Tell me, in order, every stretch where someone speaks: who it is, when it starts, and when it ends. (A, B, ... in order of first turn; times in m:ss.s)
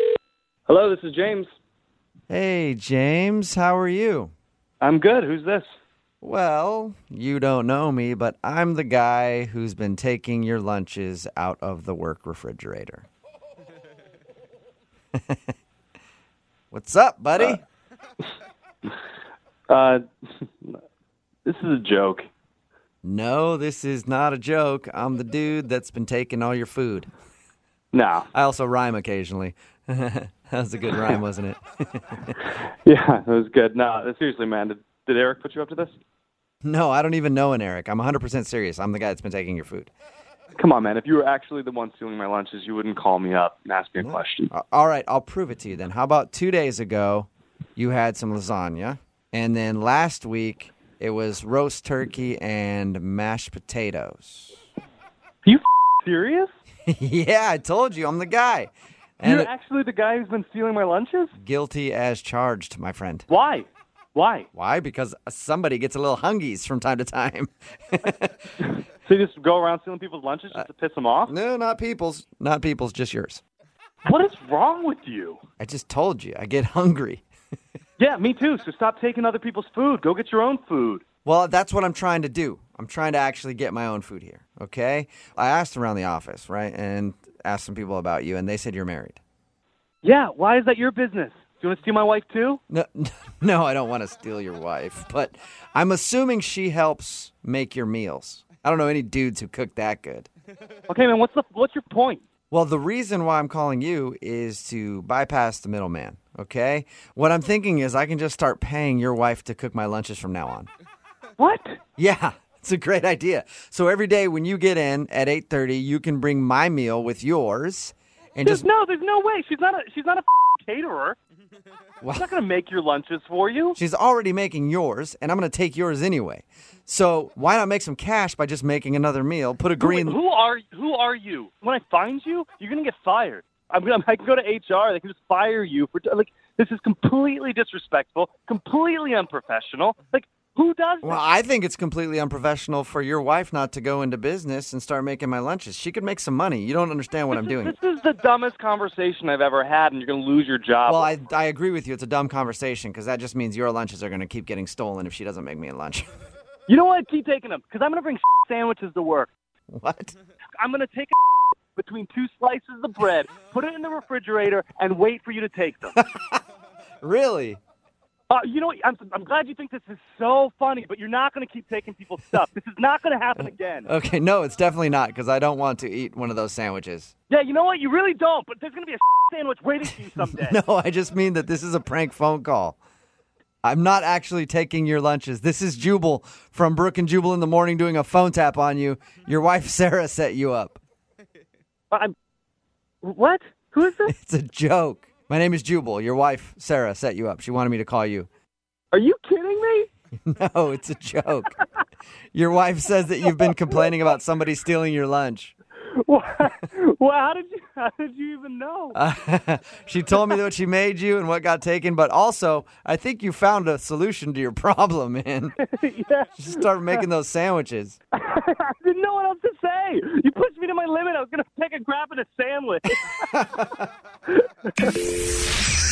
0:00.7-0:01.5 A
0:02.3-0:04.3 B
0:04.8-0:05.7 A
0:06.2-0:13.1 B
0:16.7-0:17.6 B
0:19.7-0:20.8 A
0:21.4-0:22.3 A
0:23.0-0:27.1 B
0:27.9-0:28.3 A
0:28.3-0:32.4 B
0:32.8-0:36.0 A
0:36.6-0:39.9 B
0:40.6-0:44.5 A
0:44.0-0:54.6 B
0:55.4-0:56.5 A
0:56.9-0:59.5 B
0:59.2-1:01.3 A
1:01.4-1:03.3 B
1:03.3-1:04.5 A
1:04.6-1:08.3 B
1:09.0-1:11.3 A
1:11.3-1:13.4 B
1:14.1-1:15.4 A
1:15.6-1:17.2 B
1:18.0-1:21.0 A
1:21.2-1:29.2 B
1:30.0-1:32.6 A
1:32.7-1:40.3 B
1:40.9-1:42.2 A
1:42.5-1:50.7 B
1:51.4-1:51.8 A
1:52.0-1:58.7 B
1:58.4-2:01.2 A
2:02.0-2:02.3 B
2:02.1-2:03.8 A
2:03.8-2:10.2 B
2:09.8-2:21.2 A
2:21.0-2:27.8 B
2:27.3-2:31.2 A
2:30.9-2:36.1 B
2:36.7-2:39.3 A
2:39.7-2:40.2 B
2:40.6-2:41.2 A
2:41.7-2:46.0 A
2:46.0-2:46.4 B
2:47.0-2:47.6 B
2:48.3-2:53.9 A
2:53.4-2:57.1 B
2:57.3-3:00.6 A
3:00.3-3:02.8 B
3:03.6-3:10.8 B
3:13.0-3:14.1 A
3:14.0-3:18.3 B
3:18.9-3:19.9 A
3:20.2-3:21.6 B
3:22.3-3:25.6 B
3:25.9-3:29.0 A
3:28.9-3:35.6 B
3:35.6-3:37.0 A
3:36.4-3:38.0 B
3:38.2-3:43.2 A
3:43.3-3:43.9 B
3:44.3-3:45.1 A